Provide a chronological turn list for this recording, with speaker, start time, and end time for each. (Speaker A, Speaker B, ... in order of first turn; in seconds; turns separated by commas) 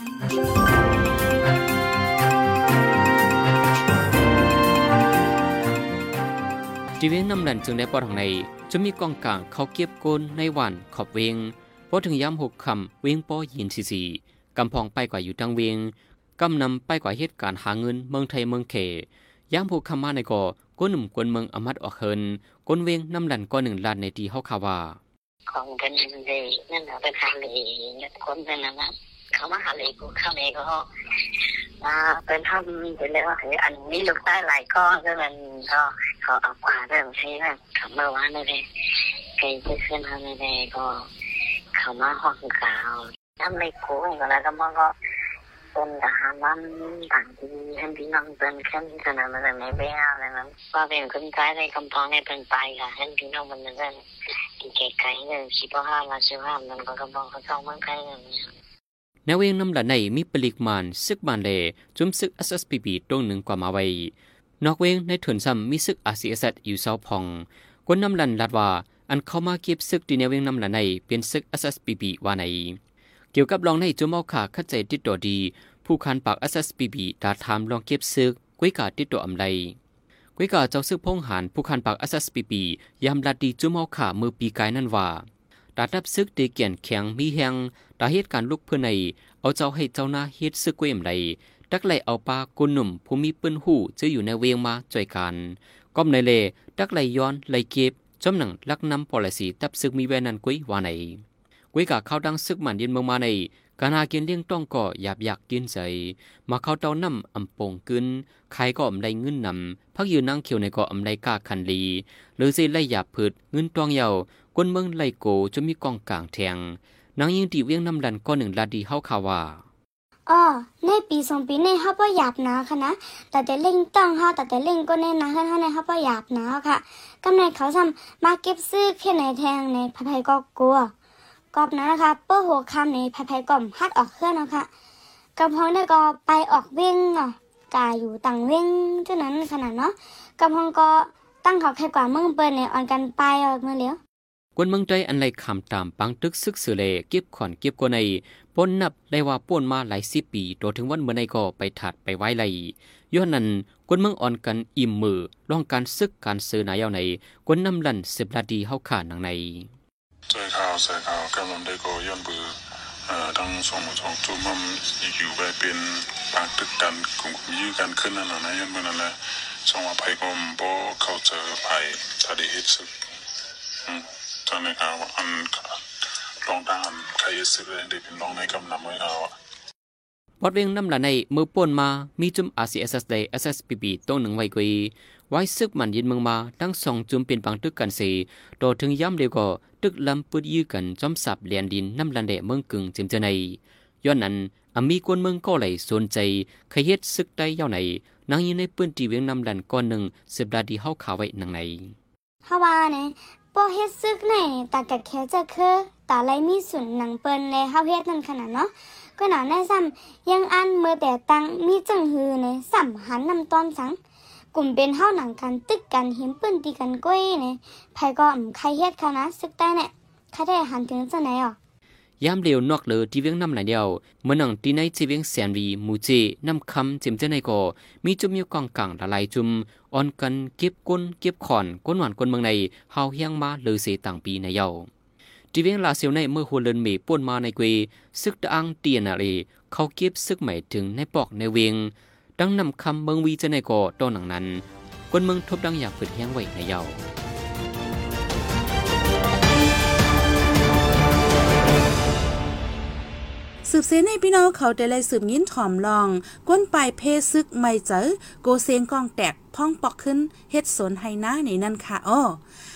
Speaker A: 7.0-25.0, Speaker B: 25.5-30.9, Speaker B: 31.8-38.6, Speaker B: 39.4-41.0, Speaker B: 41.8-44.9, Speaker B: 45.7-54.0, Speaker B: 54.6-58.5, Speaker A: 59.2-72.8, Speaker A: 73.3-79.8, Speaker A: 80.4-85.2, Speaker A: 85.8-119.6, Speaker C: 120.3-130.9, Speaker C: 131.5-134.7, Speaker C: 135.4-144.0, Speaker A: 144.6-159.7, Speaker D: 160.3-162.4, Speaker D: 163.1-169.1, Speaker D: 169.7-172.9, Speaker D: 173.9-175.5, Speaker D: 176.4-179.3, Speaker A: 180.4-201.9, Speaker C: 202.5-214.0, Speaker C: 214.5-221.6, Speaker A: 222.2-234.9, Speaker A: 235.5-247.0, Speaker E: 253.6-262.4